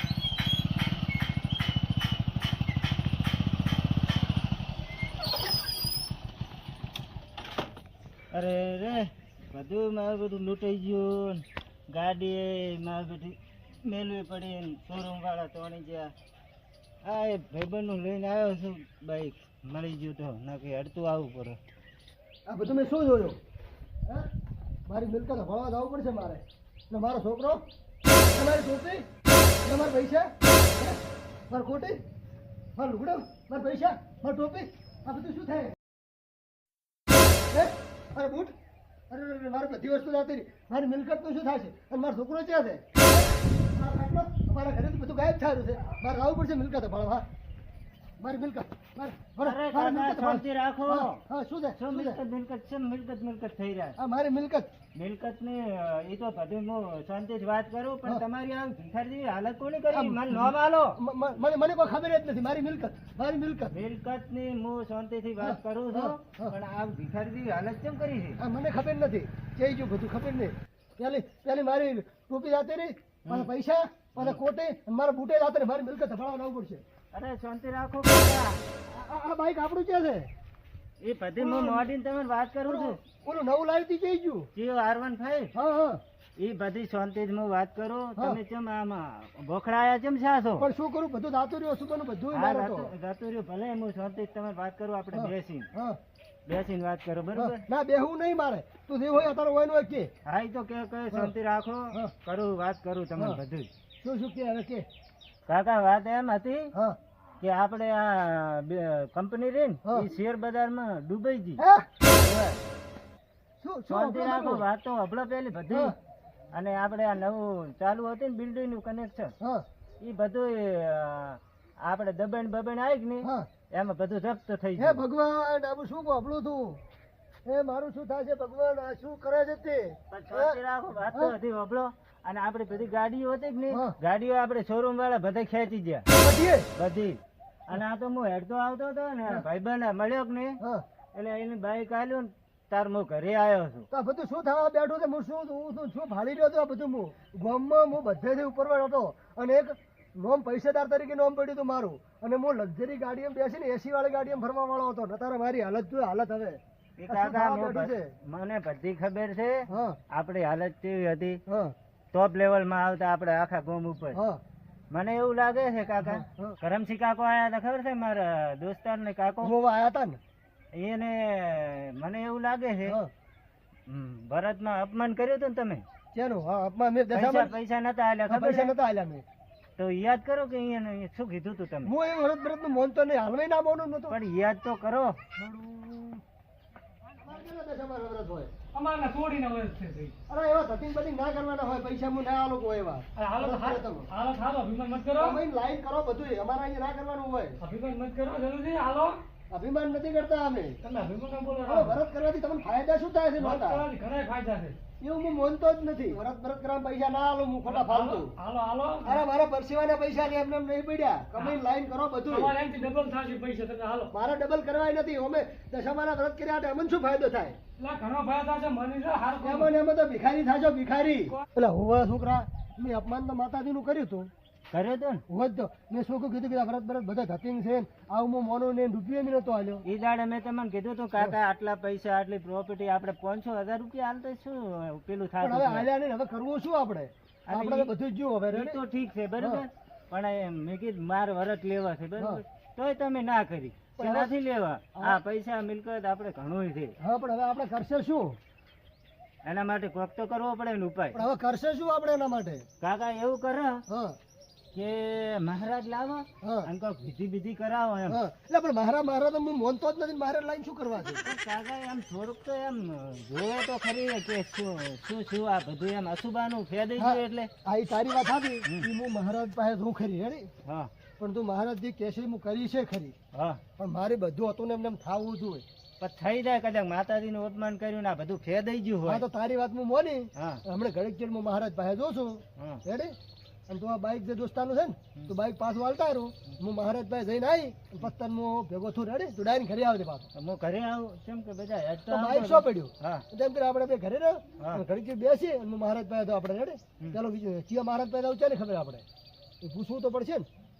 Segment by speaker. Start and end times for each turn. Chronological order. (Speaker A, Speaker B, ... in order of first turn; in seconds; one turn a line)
Speaker A: 8.3-16.1
Speaker A: 17.0-21.6
Speaker B: 22.5-23.4
Speaker B: 24.9-27.6
Speaker B: 28.3-29.0
Speaker B: 29.6-32.0
Speaker B: 32.8-35.8
Speaker B: 37.5-38.5
Speaker B: 39.1-47.2
Speaker B: 48.2-52.2
Speaker A: 49.4-51.2
Speaker A: 51.8-54.0
Speaker B: 54.0-54.7
Speaker A: 54.9-61.0
Speaker B: 59.9-63.7
Speaker A: 63.7-68.4
Speaker B: 65.4-66.5
Speaker B: 68.4-76.8
Speaker A: 77.1-78.6
Speaker B: 78.9-80.3
Speaker A: 81.0-83.0
Speaker B: 81.4-81.8
Speaker B: 82.7-84.5
Speaker A: 84.5-85.5
Speaker B: 85.5-86.0
Speaker A: 86.4-90.7
Speaker B: 90.6-92.9
Speaker A: 92.3-95.7
Speaker B: 95.1-96.0
Speaker A: 96.5-97.6
Speaker B: 97.3-100.1
Speaker A: 100.2-103.7
Speaker B: 104.0-104.8
Speaker A: 105.5-106.7
Speaker A: 107.4-111.6
Speaker B: 111.6-111.8
Speaker A: 112.2-112.6
Speaker B: 113.6-114.6
Speaker A: 113.9-115.9
Speaker A: 116.5-119.3
Speaker A: 120.0-125.0
Speaker B: 123.2-123.5
Speaker B: 124.8-126.8
Speaker B: 127.5-131.3
Speaker A: 130.1-136.1
Speaker B: 136.2-136.7
Speaker A: 136.8-140.6
Speaker A: 141.1-143.9
Speaker B: 143.9-158.1
Speaker A: 157.0-161.4
Speaker B: 159.7-160.0
Speaker B: 161.5-161.7
Speaker A: 162.1-164.2
Speaker B: 164.1-164.4
Speaker A: 164.9-169.5
Speaker B: 166.0-166.6
Speaker B: 169.4-170.2
Speaker A: 170.7-173.0
Speaker B: 172.8-173.1
Speaker A: 173.9-175.8
Speaker B: 176.1-177.6
Speaker A: 177.1-178.7
Speaker B: 178.3-179.2
Speaker A: 179.8-181.9
Speaker B: 181.8-184.2
Speaker A: 184.1-185.2
Speaker B: 185.4-186.2
Speaker B: 187.2-188.5
Speaker C: 188.7-190.1
Speaker B: 190.3-194.1
Speaker C: 193.2-195.4
Speaker B: 195.2-197.6
Speaker C: 197.6-199.2
Speaker B: 199.5-200.8
Speaker C: 200.8-202.0
Speaker B: 201.7-203.8
Speaker C: 203.4-204.8
Speaker B: 205.0-208.3
Speaker C: 207.7-209.2
Speaker B: 209.0-212.5
Speaker C: 211.3-211.6
Speaker C: 212.3-214.1
Speaker B: 214.1-217.6
Speaker C: 217.8-219.7
Speaker B: 219.4-224.3
Speaker A: 224.7-225.2
Speaker B: 225.3-229.8
Speaker A: 229.8-235.9
Speaker B: 235.4-238.8
Speaker A: 237.5-237.9
Speaker A: 238.5-246.9
Speaker B: 239.4-239.6
Speaker B: 244.0-244.3
Speaker B: 244.9-245.2
Speaker B: 247.0-248.4
Speaker A: 249.4-251.2
Speaker B: 251.1-252.6
Speaker A: 252.8-253.8
Speaker B: 253.9-254.2
Speaker A: 254.7-258.2
Speaker B: 256.4-256.7
Speaker B: 258.1-261.2
Speaker A: 261.1-267.5
Speaker B: 267.0-270.5
Speaker A: 270.6-270.9
Speaker B: 271.2-273.1
Speaker A: 273.3-273.6
Speaker B: 273.8-275.6
Speaker A: 276.0-279.2
Speaker B: 279.1-283.1
Speaker A: 280.4-280.6
Speaker A: 282.6-282.8
Speaker B: 283.7-290.3
Speaker A: 290.4-293.2
Speaker B: 292.1-299.0
Speaker A: 294.6-294.8
Speaker B: 299.6-300.5